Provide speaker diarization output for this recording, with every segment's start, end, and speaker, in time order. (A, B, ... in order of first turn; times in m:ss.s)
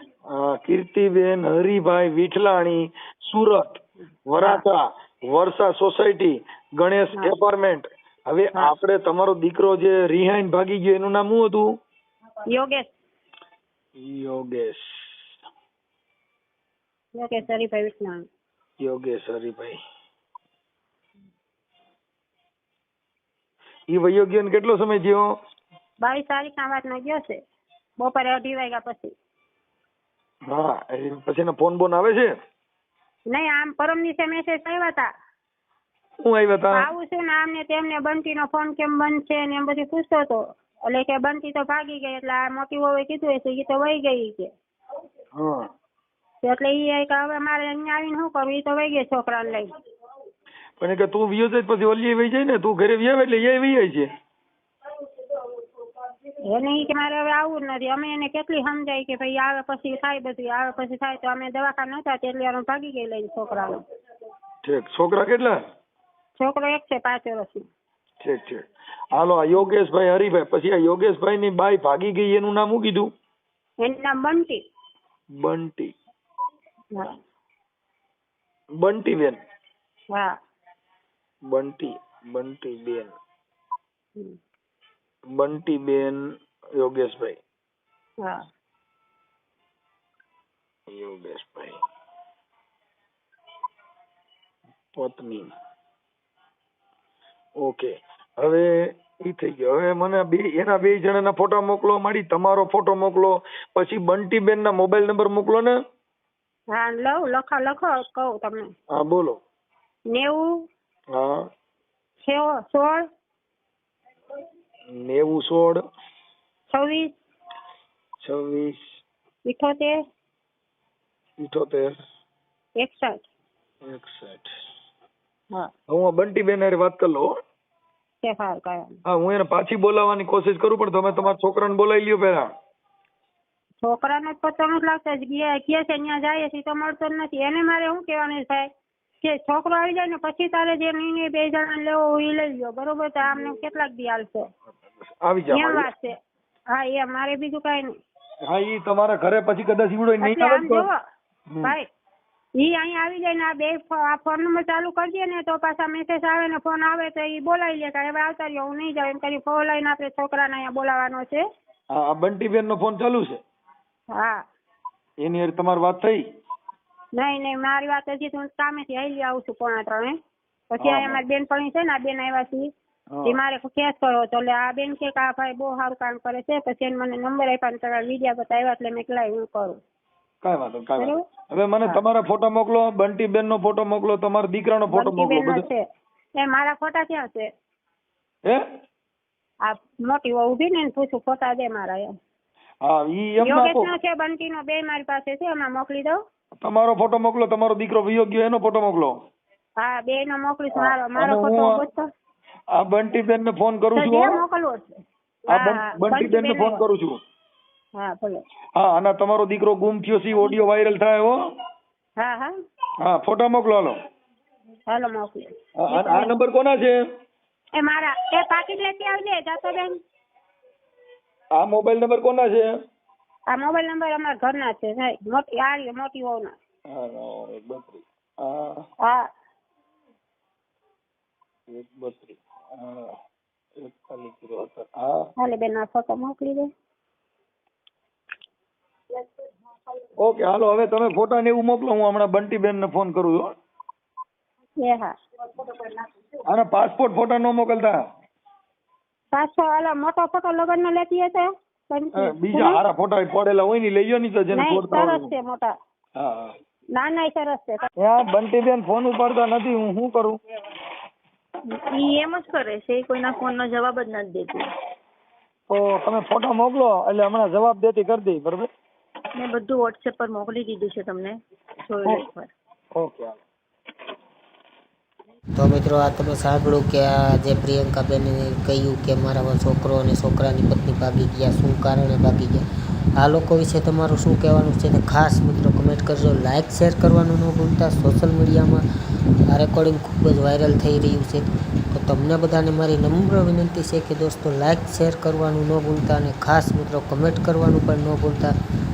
0:00.3-0:11.7 A
0:12.5-0:12.9 B
0:14.0-0:15.3 A
0:17.2-0:18.2 B
0:18.8-0:19.8 A
0:23.9-0:25.3 A
0:26.0-0:27.4 B
0:28.0-0:29.1 B
0:30.5-0:32.3 A
0:33.3-0:35.1 B
0:36.2-0:36.9 A
0:36.8-0:44.5 B
0:45.3-0:45.7 A
0:46.4-0:49.7 B
0:50.8-0:54.1 A
0:56.4-1:03.8 B
1:04.6-1:05.6 A
1:06.4-1:07.6 B
1:08.2-1:13.1 A
1:13.8-1:14.6 B
1:15.4-1:15.9 A
1:18.8-1:19.4 A
1:21.5-1:23.1 A
1:25.3-1:26.2 A
1:26.8-1:27.4 A
1:30.9-1:31.8 A
1:35.0-1:35.5 A
1:37.6-1:45.8 A
1:46.7-1:48.7 B
1:48.9-1:49.4 A
1:50.1-1:50.5 B
1:51.1-1:51.4 A
1:52.2-1:53.1 B
1:54.9-1:55.8 A
1:56.7-1:57.1 B
1:58.2-1:58.8 A
1:59.5-2:00.0 B
2:01.4-2:02.0 A
2:02.8-2:03.3 B
2:03.8-2:04.5 A
2:05.9-2:07.3 A
2:08.2-2:09.0 B
2:09.1-2:12.5 A
2:13.8-2:18.7 B
2:19.2-2:24.5 B
2:25.2-2:25.9 A
2:25.5-2:26.1 B
2:26.7-2:27.9 B
2:28.4-2:30.9 A
2:30.2-2:31.0 B
2:31.5-2:31.8 A
2:32.6-2:41.4 B
2:41.9-2:43.4 A
2:44.1-2:44.4 B
2:45.2-2:46.2 A
2:47.2-2:50.2 B
2:50.7-2:52.7 B
2:50.8-2:51.2 A
2:53.1-2:53.4 A
2:53.3-2:59.8 B
3:00.4-3:05.6 A
3:04.9-3:05.8 B
3:06.4-3:07.5 B
3:09.6-3:12.1 B
3:12.8-3:13.9 A
3:13.4-3:16.2 B
3:16.6-3:19.2 A
3:19.8-3:22.1 B
3:20.7-3:21.8 A
3:22.7-3:24.4 A
3:24.0-3:24.9 B
3:25.5-3:26.8 B
3:25.5-3:27.2 A
3:28.0-3:28.4 B
3:28.8-3:31.4 A
3:32.2-3:32.5 B
3:33.0-3:34.0 A
3:34.9-3:36.3 B
3:35.8-3:37.0 A
3:37.8-3:40.0 B
3:41.6-3:42.7 A
3:43.5-3:46.6 B
3:46.9-3:48.9 A
3:49.0-3:49.3 B
3:51.7-3:53.1 A
3:53.8-3:55.3 A
3:55.4-3:56.7 B
4:00.2-4:03.5 A
4:04.8-4:05.1 B
4:06.5-4:08.0 A
4:09.3-4:12.8 B
4:12.2-4:15.3 A
4:14.5-4:15.7 B
4:16.2-4:16.6 A
4:16.9-4:17.9 B
4:18.0-4:20.4 A
4:22.0-4:24.6 C
4:25.7-4:28.7 A
4:29.4-4:31.4 C
4:31.9-4:32.5 C
4:32.0-4:32.3 A
4:32.9-4:33.4 A
4:35.6-4:42.6 D
4:43.2-4:48.8 D
4:49.5-4:58.6 D